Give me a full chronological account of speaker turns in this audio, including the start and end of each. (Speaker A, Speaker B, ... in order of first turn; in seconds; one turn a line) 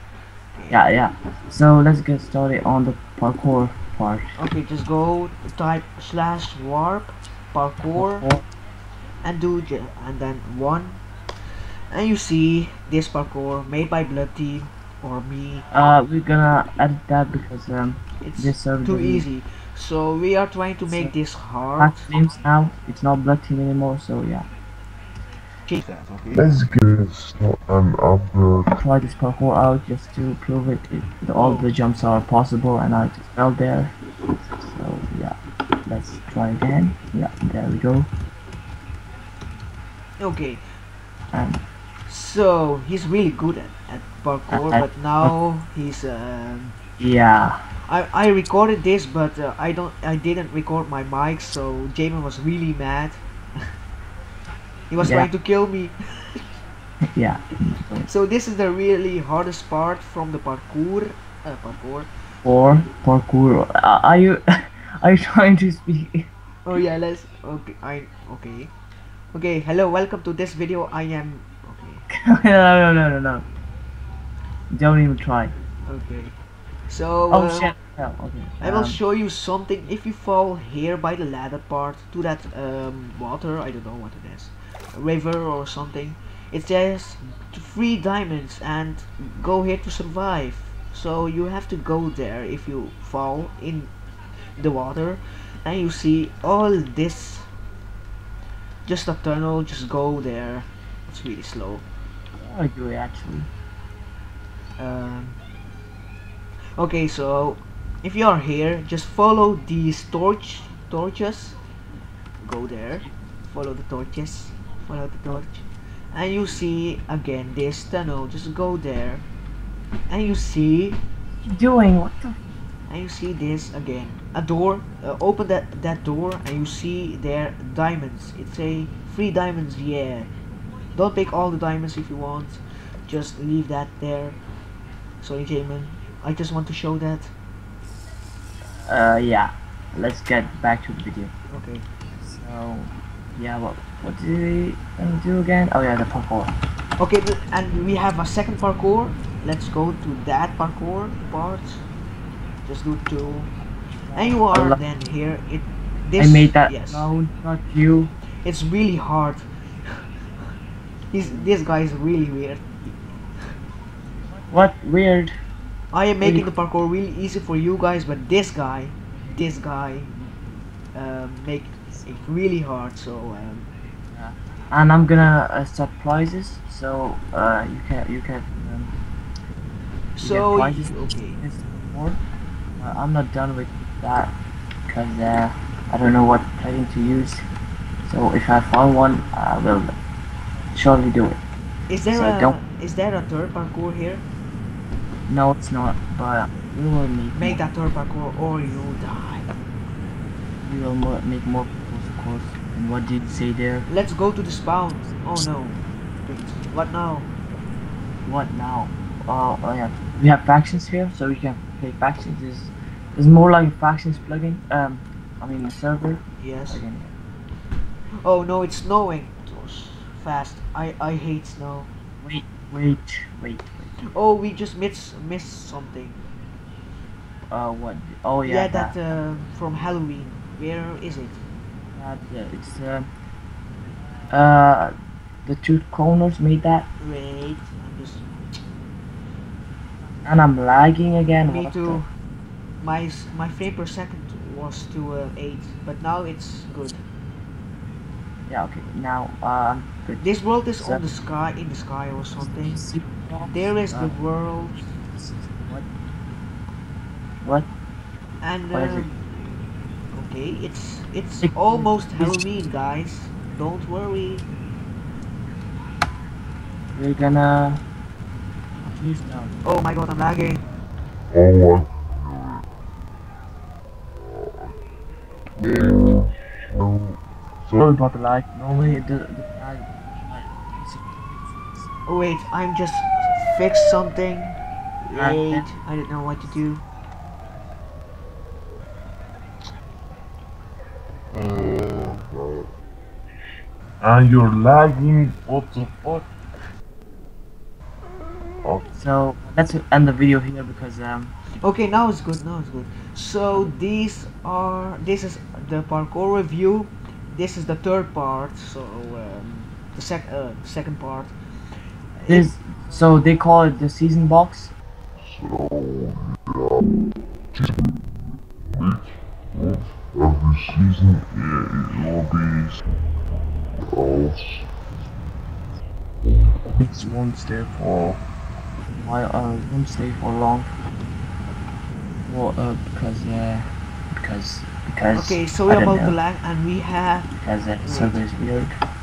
Speaker A: 0.6-0.8
Speaker B: 0.7-4.3
Speaker A: 4.4-8.3
Speaker B: 8.0-8.4
Speaker A: 9.2-11.0
Speaker A: 11.9-15.7
Speaker B: 15.7-19.3
Speaker A: 18.2-22.1
Speaker B: 21.8-24.5
Speaker A: 25.7-26.6
Speaker C: 26.3-28.8
Speaker B: 28.8-35.3
Speaker A: 31.4-31.7
Speaker B: 35.9-38.1
Speaker A: 40.2-40.6
Speaker B: 41.3-41.6
Speaker A: 42.1-46.8
Speaker B: 44.5-45.3
Speaker B: 47.0-47.6
Speaker A: 47.9-53.2
Speaker A: 54.9-56.0
Speaker B: 55.0-55.3
Speaker B: 57.1-58.1
Speaker A: 58.1-62.1
Speaker B: 62.4-64.4
Speaker B: 65.0-66.3
Speaker A: 66.7-68.7
Speaker A: 69.3-72.0
Speaker B: 72.1-73.5
Speaker B: 74.7-75.5
Speaker A: 75.8-76.3
Speaker A: 76.9-77.7
Speaker B: 77.3-79.0
Speaker A: 78.6-93.9
Speaker A: 94.6-97.5
Speaker A: 98.8-101.8
Speaker B: 102.4-103.5
Speaker A: 104.8-105.4
Speaker A: 106.8-111.6
Speaker A: 112.4-119.2
Speaker A: 120.1-121.0
Speaker B: 121.5-122.4
Speaker A: 122.9-130.3
Speaker A: 130.9-134.4
Speaker A: 135.2-137.3
Speaker B: 138.8-141.3
Speaker A: 141.5-141.8
Speaker B: 142.2-146.5
Speaker A: 147.0-151.8
Speaker A: 152.7-153.5
Speaker B: 154.1-154.8
Speaker A: 154.2-157.1
Speaker B: 156.2-158.1
Speaker A: 158.4-159.9
Speaker A: 161.1-162.9
Speaker B: 161.2-161.5
Speaker B: 164.5-165.3
Speaker A: 165.9-170.1
Speaker B: 166.2-166.5
Speaker A: 170.9-173.7
Speaker B: 174.1-178.9
Speaker A: 180.2-181.4
Speaker B: 180.2-182.2
Speaker B: 182.8-184.3
Speaker B: 184.9-187.4
Speaker B: 188.1-189.9
Speaker B: 190.7-191.4
Speaker A: 191.9-194.2
Speaker B: 192.1-192.6
Speaker B: 195.3-197.6
Speaker A: 197.3-199.5
Speaker B: 200.6-203.9
Speaker A: 203.9-207.3
Speaker B: 205.0-205.3
Speaker B: 208.2-217.1
Speaker A: 216.4-216.8
Speaker A: 218.2-221.9
Speaker B: 222.2-223.9
Speaker A: 224.1-226.2
Speaker B: 227.5-229.0
Speaker A: 228.4-231.4
Speaker B: 231.9-233.1
Speaker B: 234.3-234.9
Speaker B: 235.4-236.8
Speaker A: 237.0-238.3
Speaker B: 240.2-242.0
Speaker A: 241.4-242.1
Speaker A: 242.8-247.0
Speaker B: 248.5-250.2
Speaker A: 250.2-252.8
Speaker B: 252.4-254.2
Speaker A: 253.5-254.9
Speaker B: 254.9-255.9
Speaker B: 257.4-257.7
Speaker A: 258.4-259.1
Speaker B: 258.7-259.1
Speaker A: 260.1-264.5
Speaker B: 261.4-262.4
Speaker B: 266.9-267.8
Speaker B: 268.9-269.5
Speaker A: 269.6-270.6
Speaker C: 271.3-272.6
Speaker C: 274.2-274.8
Speaker C: 275.6-277.9
Speaker B: 277.8-281.9
Speaker A: 282.1-286.8
Speaker B: 285.1-285.7
Speaker C: 291.3-292.7
Speaker C: 294.0-296.3
Speaker C: 298.6-298.9
Speaker B: 299.0-301.3
Speaker A: 301.6-311.3
Speaker A: 312.2-312.5
Speaker B: 312.3-314.7
Speaker C: 315.2-316.8
Speaker C: 318.7-319.0
Speaker C: 319.6-322.8
Speaker C: 323.8-324.7
Speaker C: 326.8-328.2
Speaker B: 328.9-330.7
Speaker B: 332.2-336.2
Speaker A: 335.1-337.3
Speaker B: 337.4-338.7
Speaker A: 337.8-338.2